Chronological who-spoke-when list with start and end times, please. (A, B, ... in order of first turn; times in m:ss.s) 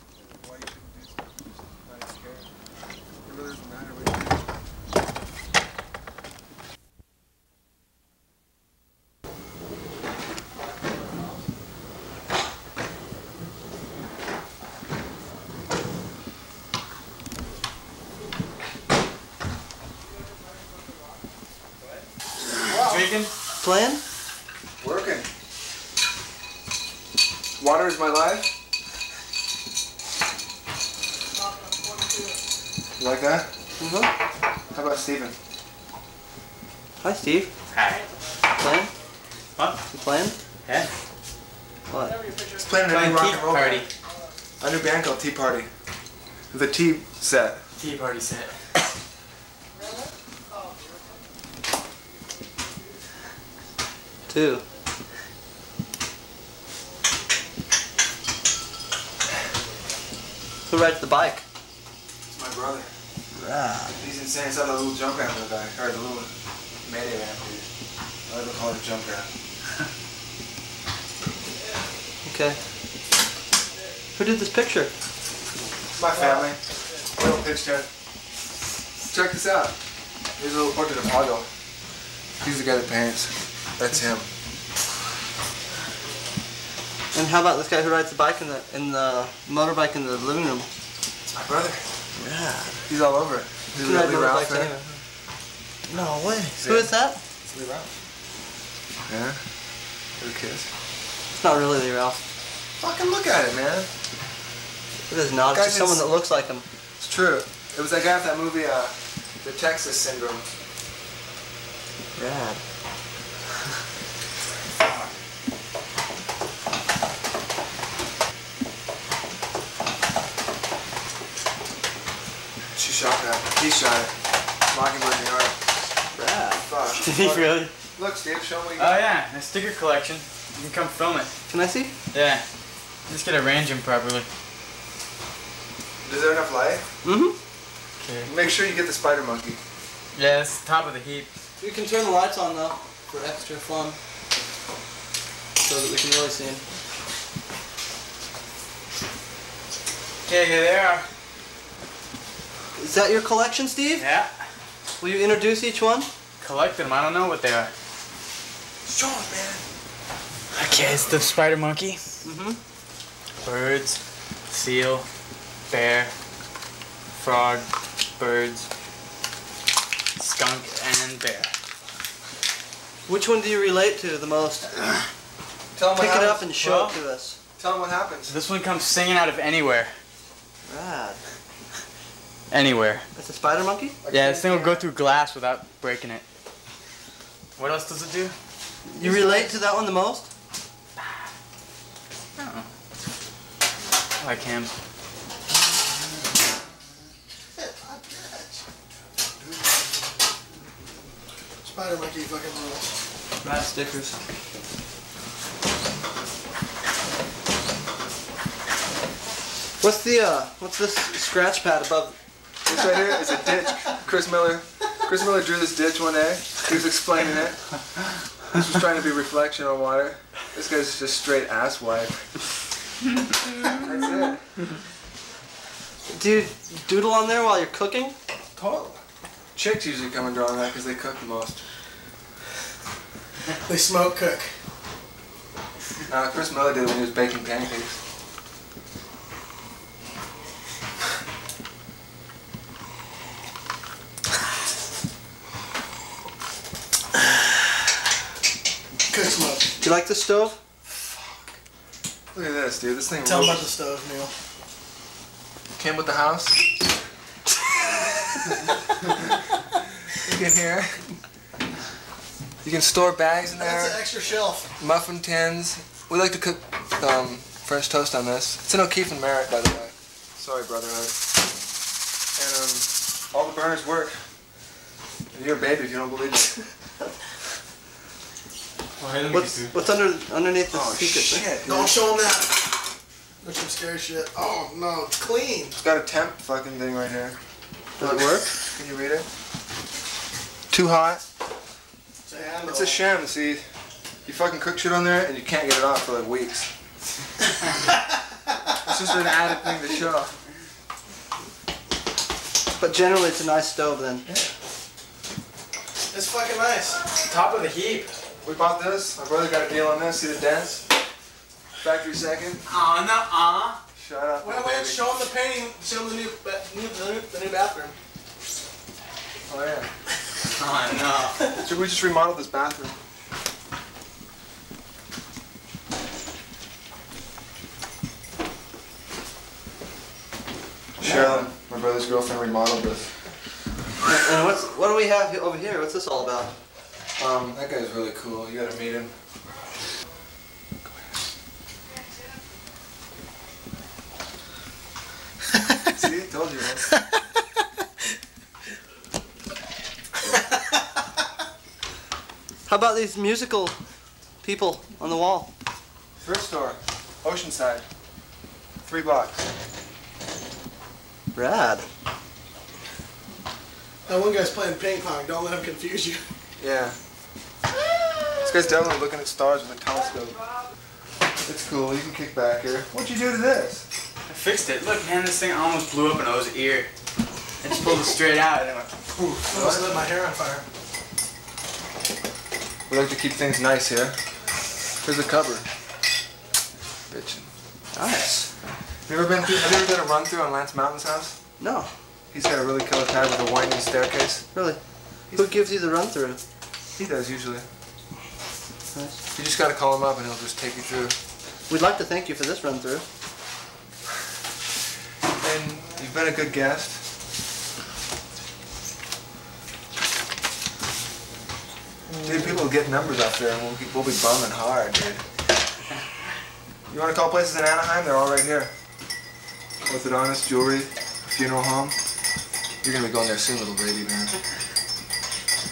0:00.2-0:01.3 A
0:01.8-0:02.5 A
0:03.2-0:04.4 A
0:22.7-0:23.1 B
0:22.7-0:23.3 C
0:23.6-0:24.0 D
0:24.8-0:25.3 A
0:27.6-0:28.5 A
0:31.3-0:32.5 B
0:33.0-0:33.5 A
0:33.8-0:34.2 D
0:34.7-0:35.4 A
0:37.0-0:37.5 D
0:37.7-0:38.1 C
0:38.6-0:38.9 D
0:39.6-0:39.8 C
0:39.9-0:40.4 D
0:41.9-0:42.2 D
0:41.9-0:42.9 B
0:42.6-0:43.9 A
0:42.8-0:43.9 C
0:44.1-0:44.4 B
0:44.6-0:45.7 A
0:46.5-0:47.6 A
0:47.8-0:48.7 C
0:49.7-0:51.3 B
0:52.1-0:53.0 B
0:54.3-0:54.6 D
1:00.7-1:01.4 D
1:02.3-1:02.9 A
1:03.3-1:04.0 D
1:04.0-1:06.3 A
1:06.8-1:07.7 A
1:08.3-1:09.3 A
1:12.3-1:12.6 D
1:14.2-1:14.9 D
1:16.0-1:16.6 A
1:17.1-1:17.9 A
1:19.1-1:19.8 A
1:20.4-1:21.5 A
1:22.4-1:24.3 A
1:27.1-1:30.7 D
1:31.3-1:31.8 A
1:32.2-1:32.8 D
1:32.9-1:34.8 A
1:33.8-1:34.9 D
1:35.9-1:37.2 D
1:36.6-1:37.0 A
1:37.5-1:37.9 A
1:39.1-1:39.4 A
1:40.2-1:40.7 A
1:41.3-1:42.2 D
1:42.8-1:43.9 A
1:45.1-1:46.6 D
1:45.5-1:46.1 A
1:47.0-1:50.5 A
1:52.2-1:52.6 D
2:02.8-2:04.1 A
2:04.7-2:05.6 A
2:06.2-2:06.7 D
2:06.6-2:09.1 A
2:07.0-2:07.7 C
2:08.8-2:11.3 C
2:11.5-2:11.9 D
2:12.1-2:12.4 C
2:13.1-2:14.3 C
2:16.0-2:16.8 A
2:17.0-2:17.4 D
2:18.0-2:18.3 C
2:18.2-2:19.6 A
2:20.2-2:21.3 C
2:21.6-2:24.0 D
2:25.6-2:26.6 D
2:30.2-2:31.1 C
2:32.8-2:34.1 D
2:34.0-2:34.3 C
2:35.0-2:36.1 D
2:36.4-2:37.7 C
2:38.9-2:39.6 A
2:40.5-2:42.0 C
2:42.2-2:42.6 D
2:43.4-2:45.1 C
2:45.7-2:46.1 C
2:47.2-2:48.7 C
2:50.2-2:51.5 C
2:53.1-2:54.7 D
2:55.8-2:56.5 A
2:56.0-2:57.4 D
2:56.6-2:56.9 C
2:57.6-2:58.4 A
2:58.3-3:00.0 C
3:00.7-3:01.2 D
3:02.5-3:03.0 C
3:03.2-3:04.6 D
3:04.1-3:04.6 A
3:04.1-3:06.2 C
3:07.6-3:08.3 C
3:08.9-3:10.3 D
3:12.4-3:12.7 C
3:14.2-3:14.7 C
3:17.6-3:18.7 B
3:21.6-3:22.9 B
3:23.4-3:24.2 D
3:29.8-3:32.2 D
3:32.6-3:37.6 A
3:38.5-3:42.2 A
3:43.7-3:44.4 A
3:46.1-3:48.2 D
3:48.6-3:49.0 A
3:49.6-3:51.6 A
3:53.7-3:54.6 B
3:56.1-3:58.0 A
4:09.1-4:09.7 B
4:09.8-4:10.6 D
4:12.3-4:13.6 A
4:13.2-4:14.3 B
4:15.8-4:16.6 A
4:20.2-4:21.2 A
4:22.6-4:24.0 A
4:23.6-4:24.7 B
4:24.8-4:31.2 A
4:32.4-4:34.2 A
4:35.3-4:36.6 A
4:39.0-4:39.7 C
4:39.3-4:41.5 D
4:40.7-4:42.0 A
4:41.6-4:42.7 B
4:43.4-4:45.8 B
4:45.8-4:47.4 A
4:48.0-4:49.3 A
4:50.7-4:51.2 A
4:52.2-4:53.1 B
4:52.6-4:53.6 A
4:54.2-4:56.7 A
4:58.8-5:00.3 A
5:02.8-5:04.3 D
5:06.1-5:07.1 B
5:07.2-5:08.1 C
5:08.4-5:10.8 A
5:11.8-5:12.6 A
5:12.7-5:13.8 C
5:14.0-5:15.0 A
5:14.4-5:18.0 B
5:19.5-5:19.9 A
5:20.4-5:21.5 C
5:21.6-5:23.0 A
5:31.0-5:33.1 A
5:34.0-5:36.6 D
5:37.2-5:39.1 A
5:40.8-5:41.2 A
5:45.8-5:47.0 A
5:52.7-5:53.8 D
5:54.4-5:55.5 D
5:56.2-5:57.9 A
5:58.8-5:59.4 A
6:01.4-6:01.9 D
6:04.1-6:06.2 B
6:06.6-6:07.0 A
6:08.4-6:10.4 A
6:11.4-6:13.9 A
6:14.3-6:16.9 C
6:17.6-6:18.9 C
6:19.2-6:20.0 A
6:19.4-6:20.6 B
6:22.9-6:24.2 A
6:25.0-6:25.6 A
6:27.1-6:27.5 A
6:27.9-6:28.5 D
6:29.1-6:31.4 A
6:31.6-6:31.9 D
6:32.3-6:34.5 A
6:34.5-6:34.8 D
6:35.3-6:35.6 A
6:35.3-6:36.4 D
6:37.0-6:37.7 A
6:39.3-6:41.2 A
6:41.7-6:43.1 D
6:45.4-6:47.0 A
6:52.2-6:55.2 A
6:56.9-6:58.7 A
6:59.9-7:02.0 A
7:02.8-7:04.4 A